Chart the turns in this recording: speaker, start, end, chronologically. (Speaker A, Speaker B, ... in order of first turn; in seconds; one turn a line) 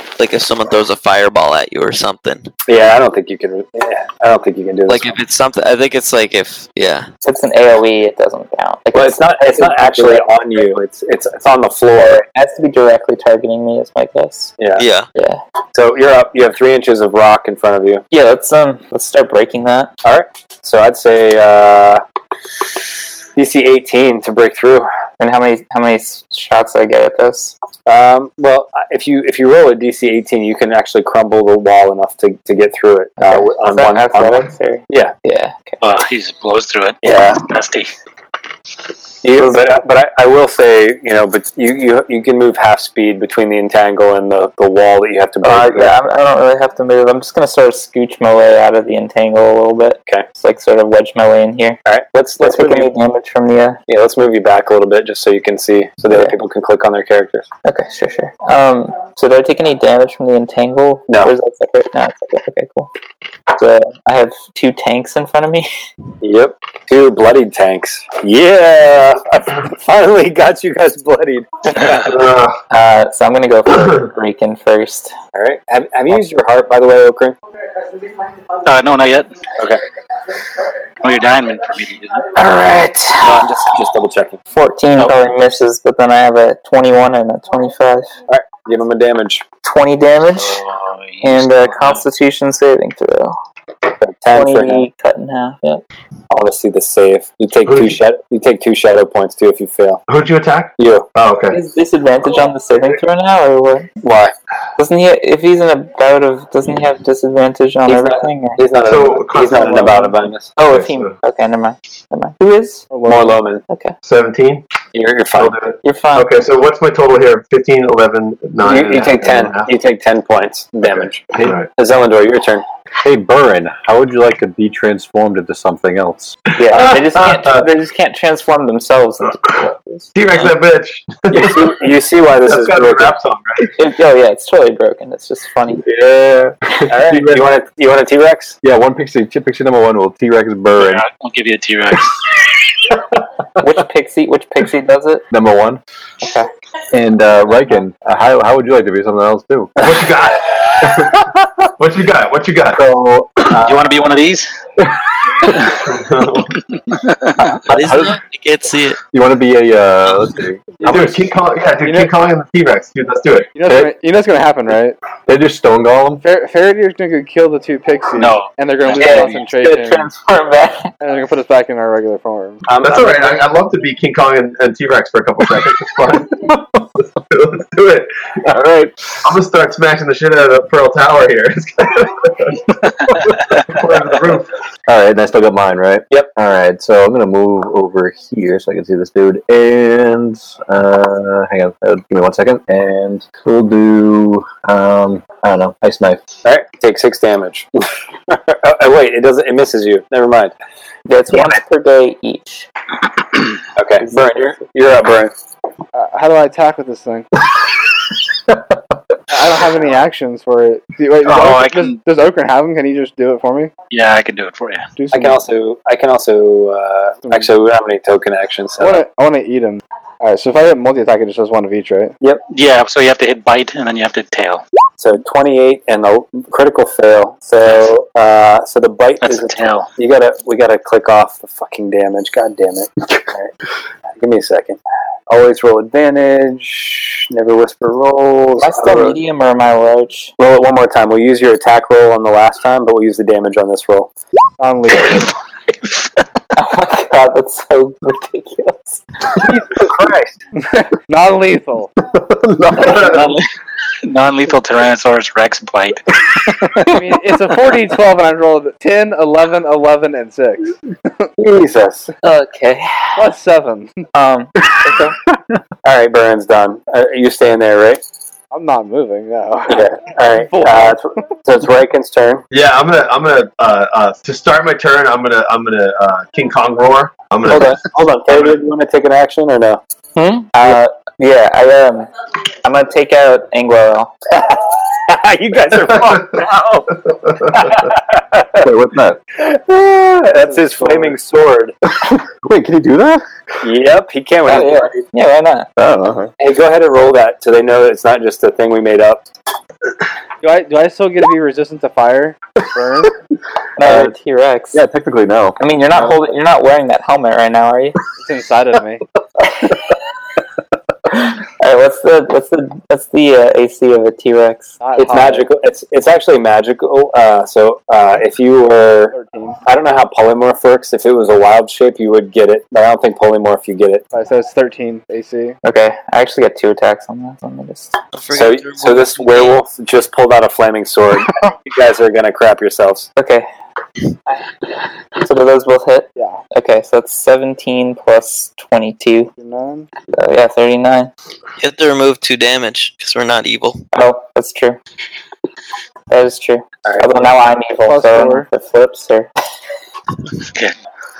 Speaker A: 0.2-2.5
Speaker B: 2.6-5.2
Speaker A: 4.9-7.1
Speaker C: 7.2-10.2
Speaker B: 8.9-12.2
Speaker C: 11.9-14.5
Speaker B: 14.6-14.8
Speaker A: 14.8-15.1
Speaker C: 15.1-15.4
Speaker B: 15.7-18.0
Speaker C: 18.1-19.9
Speaker B: 20.0-22.0
Speaker B: 23.4-24.9
Speaker C: 25.2-27.5
Speaker B: 27.9-35.1
Speaker C: 33.2-35.8
Speaker D: 35.8-37.9
Speaker B: 37.0-37.4
Speaker B: 39.2-45.9
Speaker C: 45.4-51.8
Speaker B: 51.8-52.9
Speaker C: 52.4-53.8
Speaker B: 53.9-57.5
Speaker C: 56.1-56.4
Speaker C: 57.6-62.9
Speaker B: 61.1-61.3
Speaker C: 63.5-65.7
Speaker B: 66.2-72.1
Speaker E: 72.0-72.6
Speaker C: 72.7-75.1
Speaker B: 75.3-77.3
Speaker D: 78.6-79.3
Speaker D: 81.0-82.3
Speaker C: 82.3-83.5
Speaker B: 83.2-84.4
Speaker C: 84.5-88.1
Speaker B: 88.3-89.4
Speaker C: 89.6-90.6
Speaker D: 90.4-92.0
Speaker C: 91.2-93.4
Speaker B: 94.0-94.8
Speaker C: 94.3-95.8
Speaker B: 96.3-100.0
Speaker E: 97.6-98.0
Speaker E: 100.1-101.6
Speaker B: 100.8-101.0
Speaker C: 101.5-103.9
Speaker B: 104.0-104.3
Speaker C: 104.8-108.6
Speaker B: 107.8-110.5
Speaker E: 108.8-111.1
Speaker C: 110.5-112.9
Speaker F: 112.9-113.4
Speaker B: 113.0-113.6
Speaker C: 113.7-113.9
Speaker E: 114.0-114.6
Speaker B: 114.9-115.6
Speaker E: 115.3-119.7
Speaker C: 115.8-116.3
Speaker B: 118.6-122.6
Speaker E: 120.9-121.7
Speaker G: 123.0-126.4
Speaker E: 126.5-127.7
Speaker C: 126.6-130.1
Speaker E: 130.1-131.8
Speaker B: 131.3-133.1
Speaker E: 132.4-133.8
Speaker C: 133.8-135.8
Speaker G: 135.8-137.4
Speaker B: 136.9-138.6
Speaker G: 138.6-141.0
Speaker D: 140.8-142.2
Speaker C: 143.6-145.2
Speaker G: 145.3-145.8
Speaker C: 146.2-146.5
Speaker G: 146.9-149.7
Speaker E: 149.8-151.2
Speaker E: 151.8-152.8
Speaker G: 152.7-153.9
Speaker D: 153.6-154.5
Speaker E: 155.7-156.5
Speaker D: 156.9-157.3
Speaker G: 157.4-158.2
Speaker A: 157.7-159.0
Speaker G: 159.1-161.0
Speaker F: 160.8-161.1
Speaker E: 160.8-163.5
Speaker F: 161.8-162.1
Speaker F: 163.6-165.0
Speaker G: 163.7-163.9
Speaker G: 165.2-166.2
Speaker F: 166.2-170.1
Speaker D: 168.1-169.4
Speaker C: 168.9-170.9
Speaker F: 171.0-172.6
Speaker B: 172.7-173.4
Speaker E: 172.8-178.1
Speaker G: 178.4-179.1
Speaker E: 179.2-182.7
Speaker E: 183.3-184.5
Speaker G: 184.9-196.2
Speaker B: 196.4-197.7
Speaker B: 198.3-200.5
Speaker C: 201.1-202.7
Speaker B: 203.8-205.3
Speaker C: 204.0-204.6
Speaker F: 205.9-207.3
Speaker F: 209.3-213.7
Speaker D: 211.2-212.0
Speaker D: 213.9-214.9
Speaker F: 215.0-215.4
Speaker B: 215.1-219.0
Speaker F: 217.2-217.5
Speaker F: 218.8-222.2
Speaker D: 222.5-224.6
Speaker B: 225.0-233.5
Speaker D: 229.2-229.9
Speaker B: 234.2-239.2
Speaker C: 238.6-240.3
Speaker B: 240.4-244.1
Speaker F: 244.6-245.3
Speaker C: 246.5-249.0
Speaker F: 250.5-251.9
Speaker G: 252.4-252.7
Speaker E: 252.7-253.3
Speaker D: 252.8-253.4
Speaker D: 254.0-256.9
Speaker F: 256.8-260.7
Speaker B: 261.4-262.1
Speaker C: 262.2-263.2
Speaker F: 263.2-264.0
Speaker C: 264.1-265.1
Speaker B: 265.8-268.0
Speaker F: 268.5-271.0
Speaker B: 269.7-272.4
Speaker E: 272.5-278.6
Speaker B: 277.4-279.8
Speaker C: 280.1-282.1
Speaker C: 282.6-284.1
Speaker B: 284.3-288.6
Speaker G: 288.6-289.2
Speaker B: 289.4-291.7
Speaker F: 290.3-291.1
Speaker G: 292.0-293.2
Speaker B: 293.6-295.0
Speaker C: 294.5-295.7
Speaker G: 295.8-296.3
Speaker B: 296.4-299.2
Speaker F: 300.4-303.1
Speaker C: 303.8-304.8
Speaker G: 303.8-304.1
Speaker G: 304.7-305.6
Speaker C: 305.6-308.0
Speaker F: 308.2-309.0
Speaker C: 311.2-314.8
Speaker F: 314.8-315.5
Speaker B: 314.9-319.1
Speaker F: 319.1-319.6
Speaker B: 319.6-324.1
Speaker F: 324.1-325.6
Speaker C: 325.6-327.9
Speaker A: 328.1-329.6
Speaker B: 328.3-333.1
Speaker C: 333.1-333.4
Speaker C: 335.2-339.3
Speaker F: 336.1-336.4
Speaker F: 339.4-339.9
Speaker C: 340.1-341.1
Speaker A: 341.6-343.8
Speaker C: 343.9-344.8
Speaker C: 346.1-349.3
Speaker B: 346.8-347.2
Speaker F: 347.8-348.5